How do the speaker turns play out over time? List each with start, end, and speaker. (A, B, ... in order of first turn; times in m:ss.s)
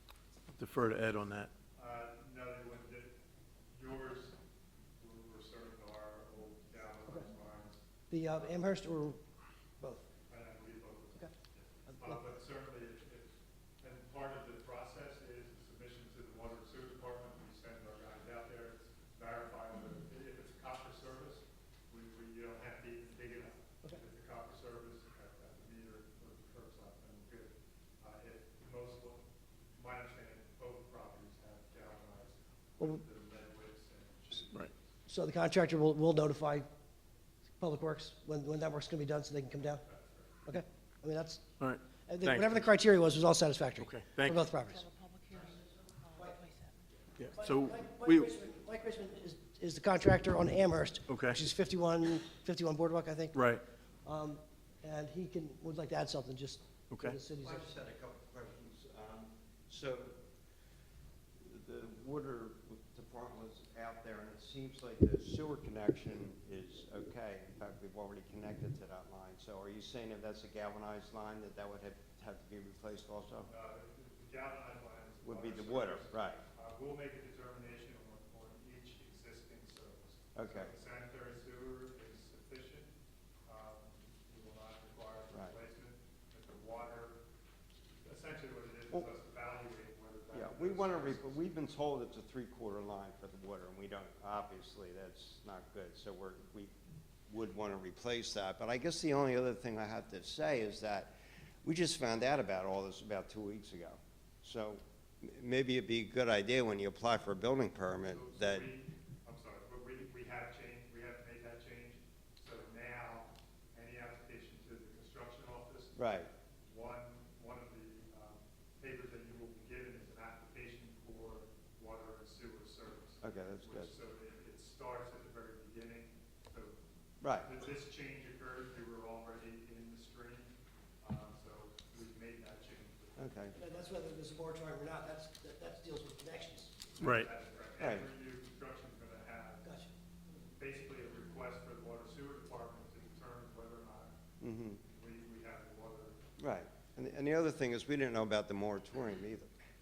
0:00.6-0:01.5 A
0:01.8-0:03.2 B
0:03.7-0:04.4 B
0:05.0-0:07.8 B
0:08.1-0:09.2 C
0:09.8-0:10.1 C
0:10.3-0:29.2 B
0:11.9-0:12.2 C
0:29.8-0:34.8 B
0:35.1-0:36.7 C
0:37.6-0:39.8 C
0:39.8-0:40.4 B
0:40.5-0:41.4 C
0:41.6-0:42.7 A
0:42.1-0:44.9 C
0:43.8-0:44.4 A
0:44.6-0:46.8 D
0:46.1-0:46.4 C
0:47.2-0:48.3 A
0:47.3-0:53.4 C
0:51.1-0:51.4 A
0:53.3-0:53.6 A
0:54.0-0:57.6 C
0:56.9-0:57.2 A
0:57.4-1:00.2 E
1:01.4-1:13.5 E
1:13.5-1:22.9 B
1:15.2-1:16.4 E
1:20.4-1:20.7 E
1:23.5-1:27.2 B
1:28.0-1:31.4 B
1:30.3-1:36.7 E
1:37.3-1:48.7 E
1:48.0-1:56.1 B
1:56.0-1:56.3 E
1:56.6-2:06.8 B
2:03.2-2:03.9 E
2:07.2-2:07.5 E
2:07.4-2:13.2 B
2:13.2-2:13.6 E
2:13.5-2:16.9 C
2:17.0-2:19.7 B
2:17.0-2:17.3 A
2:17.8-2:18.1 E
2:19.6-2:19.9 C
2:20.6-2:24.2 B
2:24.4-2:24.8 E
2:24.8-2:26.2 B
2:26.4-2:29.5 E